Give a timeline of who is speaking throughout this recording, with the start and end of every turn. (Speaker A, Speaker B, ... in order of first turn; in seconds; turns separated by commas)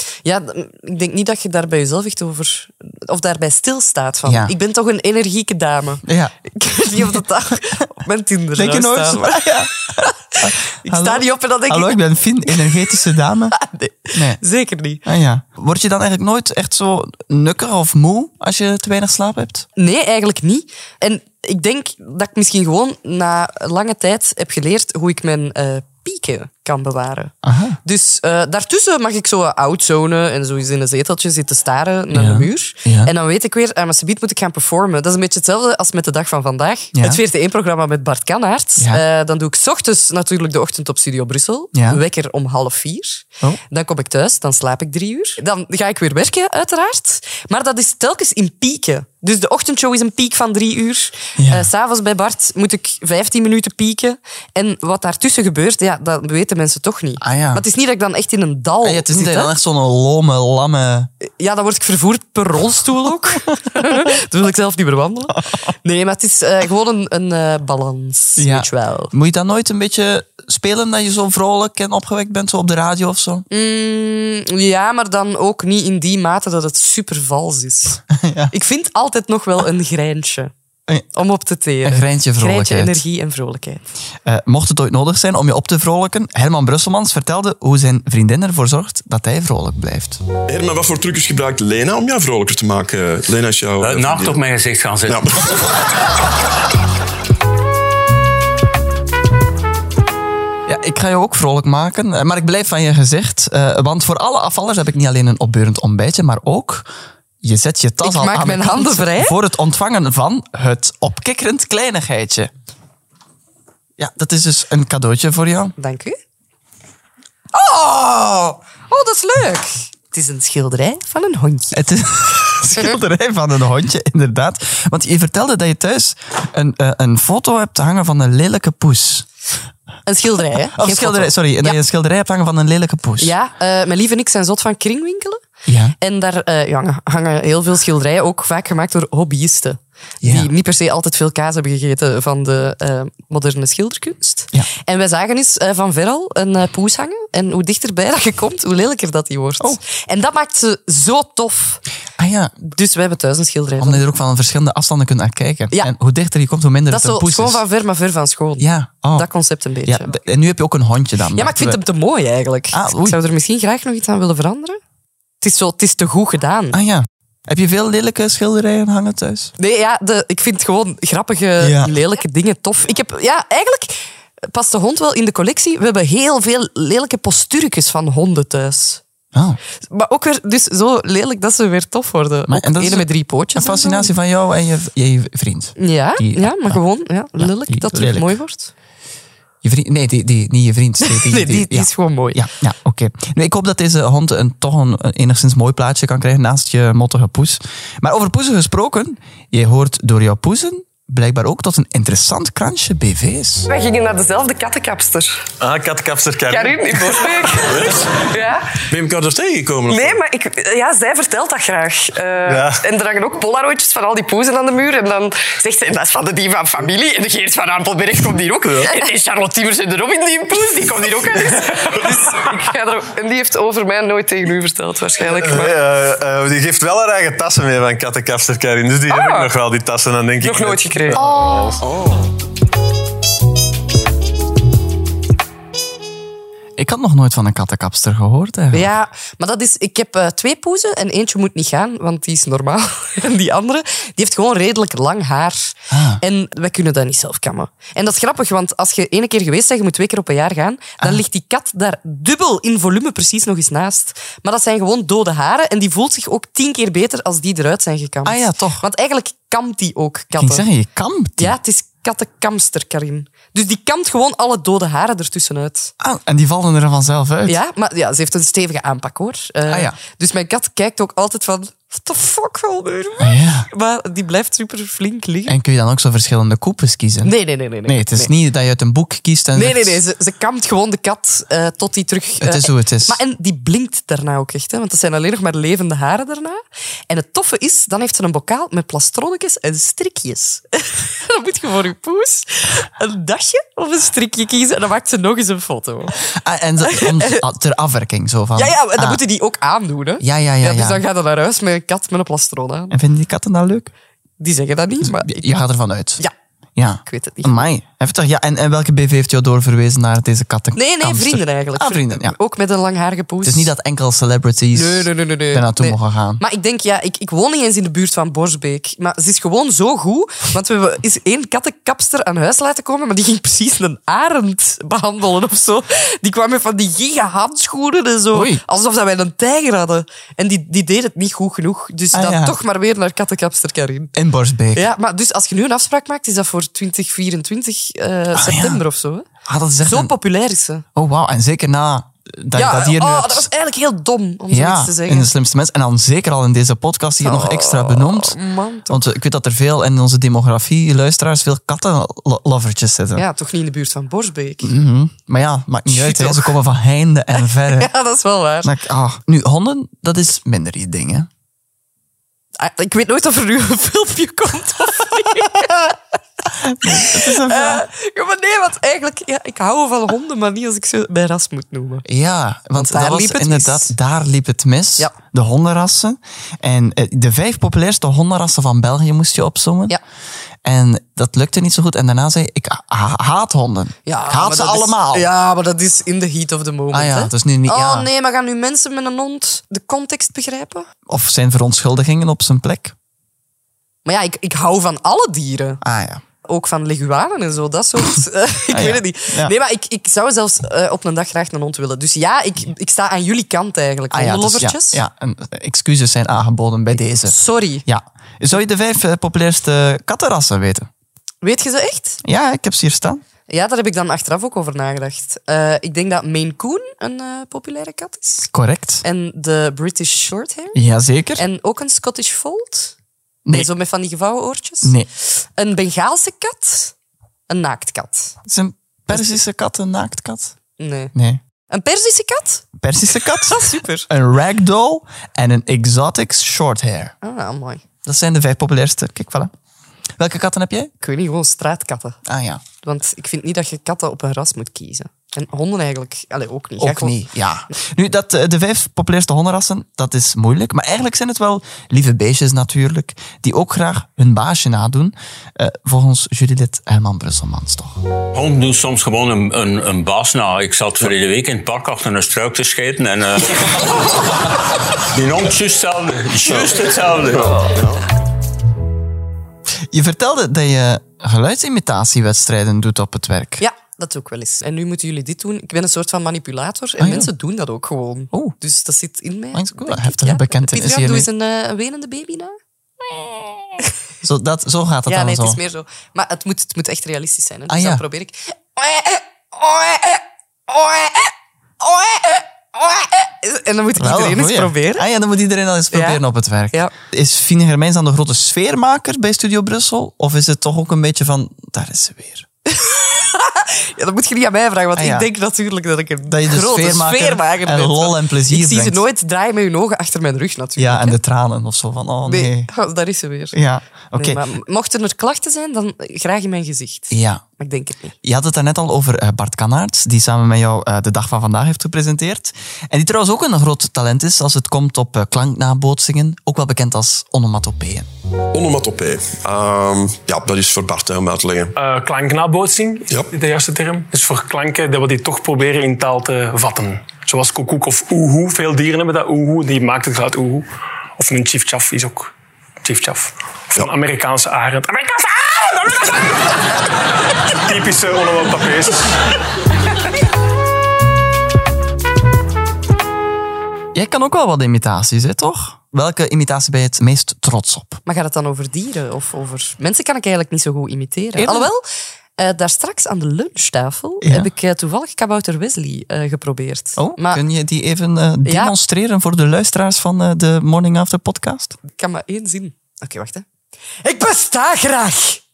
Speaker A: 0.2-12.9, Speaker B: 4.2-4.5, Speaker B: 6.0-6.3, Speaker B: 8.6-13.6, Speaker A: 13.5-15.0, Speaker B: 14.1-14.4, Speaker B: 15.0-19.6, Speaker A: 19.8-59.5, Speaker B: 27.4-27.8, Speaker B: 32.1-33.1, Speaker B: 36.9-37.2, Speaker B: 38.8-39.0, Speaker B: 41.7-42.0, Speaker B: 51.4-51.7, Speaker B: 57.2-57.6, Speaker B: 58.8-61.1, Speaker A: 61.2-69.1, Speaker B: 68.4-73.5, Speaker A: 73.5-80.5, Speaker B: 78.1-78.5, Speaker A: 81.1-83.9, Speaker B: 81.8-83.0, Speaker B: 84.2-90.2, Speaker C: 90.5-94.4, Speaker D: 93.8-95.3, Speaker C: 95.0-95.6, Speaker B: 100.7-106.9, Speaker B: 107.4-112.5, Speaker A: 108.0-109.3, Speaker B: 114.0-115.7, Speaker A: 115.8-116.2, Speaker A: 117.5-121.9, Speaker B: 121.7-129.3, Speaker A: 130.1-131.8, Speaker B: 130.7-133.3, Speaker A: 133.2-135.4, Speaker B: 135.7-135.9, Speaker A: 136.0-151.8, Speaker B: 140.2-140.5, Speaker B: 152.2-152.6, Speaker A: 152.6-154.1, Speaker B: 153.8-157.6, Speaker A: 156.9-160.1, Speaker B: 158.6-159.3, Speaker B: 159.8-161.8, Speaker A: 161.3-164.8, Speaker B: 162.7-163.2, Speaker A: 165.4-166.8, Speaker B: 166.7-169.5, Speaker A: 169.6-179.0, Speaker B: 171.6-172.0, Speaker B: 179.3-179.6, Speaker A: 179.9-184.1, Speaker B: 182.5-186.8, Speaker A: 185.8-188.7, Speaker B: 187.4-188.4, Speaker B: 189.6-203.7, Speaker A: 191.0-192.4, Speaker E: 203.7-205.4, Speaker F: 205.6-207.5, Speaker E: 206.5-208.8, Speaker C: 207.6-208.1, Speaker C: 208.9-210.2, Speaker E: 209.9-225.7, Speaker F: 212.4-212.8, Speaker F: 218.6-219.0, Speaker F: 225.3-232.1, Speaker E: 229.1-229.5, Speaker E: 230.4-231.8, Speaker B: 236.8-238.9, Speaker A: 238.7-260.6, Speaker B: 245.9-246.2, Speaker B: 258.2-258.8, Speaker B: 260.3-261.6, Speaker A: 261.4-265.9, Speaker B: 266.0-267.6, Speaker A: 267.4-275.6, Speaker B: 269.6-270.0, Speaker B: 273.2-273.7, Speaker B: 275.5-277.3, Speaker A: 277.2-278.3, Speaker B: 277.8-280.0, Speaker A: 279.5-296.2, Speaker B: 282.4-283.2, Speaker B: 296.2-299.2, Speaker A: 296.8-297.4, Speaker A: 298.6-302.9, Speaker B: 300.2-301.0, Speaker B: 302.9-303.9, Speaker A: 304.4-305.5, Speaker B: 305.0-306.2, Speaker B: 306.8-312.4, Speaker A: 307.1-307.6, Speaker A: 310.7-313.7, Speaker B: 313.4-316.4, Speaker A: 314.7-334.1, Speaker B: 328.3-328.6, Speaker B: 332.1-332.6, Speaker B: 334.1-334.9, Speaker A: 334.7-339.3, Speaker B: 338.3-338.8, Speaker B: 339.4-340.1, Speaker A: 339.8-340.8, Speaker B: 340.9-343.5, Speaker A: 342.5-345.3, Speaker B: 344.5-348.4, Speaker A: 347.2-349.0, Speaker B: 348.9-353.2, Speaker A: 353.1-354.7, Speaker B: 354.6-357.9, Speaker A: 355.9-356.5, Speaker A: 357.6-358.7, Speaker B: 358.6-361.3, Speaker A: 362.6-366.0, Speaker B: 366.6-367.9, Speaker A: 366.8-372.0, Speaker B: 372.0-380.0, Speaker A: 372.7-373.9, Speaker B: 380.6-385.3, Speaker A: 384.1-390.9, Speaker B: 386.9-388.1, Speaker B: 391.1-392.9, Speaker A: 394.1-395.8, Speaker B: 395.8-396.2, Speaker A: 396.4-405.0, Speaker B: 398.7-399.5, Speaker B: 404.1-410.9, Speaker A: 407.2-407.8, Speaker A: 411.4-412.2, Speaker B: 412.2-413.2, Speaker A: 413.5-418.5, Speaker B: 418.5-419.0, Speaker A: 419.0-420.8, Speaker B: 420.7-421.4, Speaker A: 421.4-422.9, Speaker A: 423.5-426.9, Speaker B: 424.8-425.1, Speaker A: 427.5-428.4, Speaker B: 428.4-430.5, Speaker A: 430.8-431.1, Speaker B: 431.1-431.4, Speaker A: 431.7-432.6, Speaker B: 432.8-437.1, Speaker A: 433.4-434.1, Speaker A: 437.2-437.8, Speaker B: 438.0-439.5, Speaker B: 440.2-440.9, Speaker A: 441.0-442.2, Speaker B: 442.2-442.6, Speaker A: 442.8-447.2, Speaker B: 446.8-458.0, Speaker D: 458.3-464.2, Speaker D: 465.0-467.8, Speaker C: 466.5-466.8, Speaker C: 467.3-468.0, Speaker B: 469.9-473.6, Speaker A: 473.6-483.9, Speaker B: 477.0-477.3, Speaker B: 479.5-481.3, Speaker B: 484.2-485.6, Speaker A: 485.1-495.1, Speaker B: 487.7-488.0, Speaker B: 494.0-502.5, Speaker A: 495.9-496.2, Speaker A: 502.7-511.2, Speaker B: 504.9-505.3, Speaker B: 506.2-509.0, Speaker B: 510.8-512.7, Speaker A: 512.2-513.5, Speaker B: 513.5-514.4, Speaker A: 514.1-518.1, Speaker B: 517.1-517.4, Speaker B: 518.2-528.1, Speaker C: 528.5-531.7, Speaker G: 531.8-546.5, Speaker G: 547.5-549.1, Speaker B: 553.9-558.0, Speaker A: 558.0-561.8, Speaker B: 561.4-561.7, Speaker A: 562.4-567.4, Speaker B: 564.2-564.5, Speaker B: 567.0-571.8, Speaker A: 568.4-568.7, Speaker A: 571.9-573.4, Speaker A: 574.0-575.4